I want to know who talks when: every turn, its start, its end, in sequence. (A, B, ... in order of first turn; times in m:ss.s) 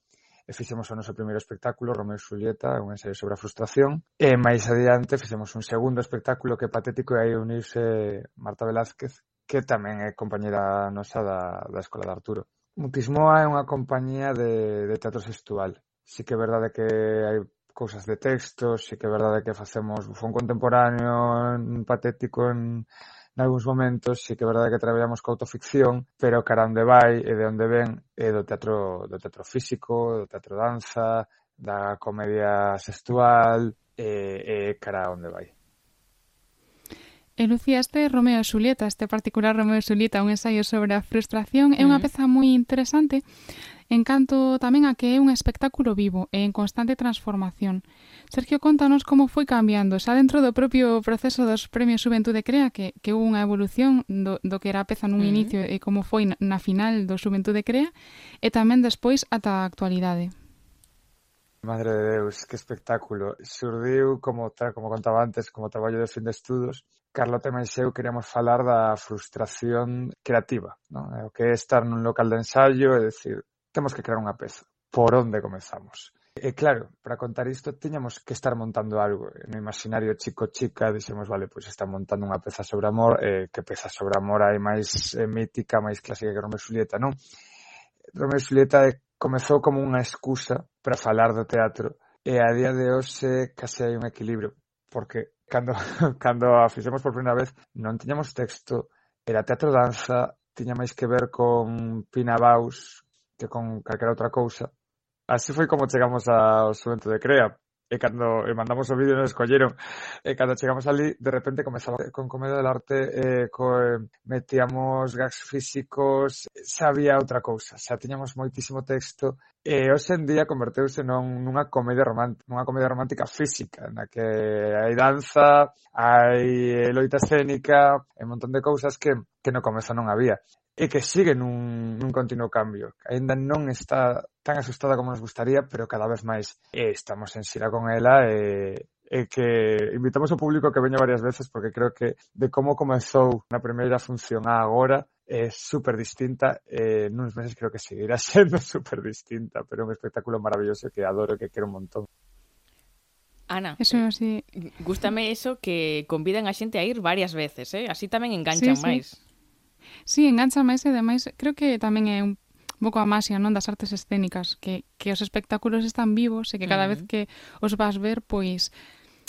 0:00.5-0:35.5 A
0:37.4-0:43.2 B
0:41.8-0:42.1 C
0:43.9-0:57.9 B
0:55.2-0:55.6 C
0:58.4-1:00.3 B
1:01.6-1:27.2 A
1:28.1-1:44.7 A
1:45.3-2:32.1 A
2:33.5-2:39.2 C
2:33.8-2:34.4 B
2:38.5-2:39.0 B
2:40.1-2:48.7 B
2:46.6-2:47.1 C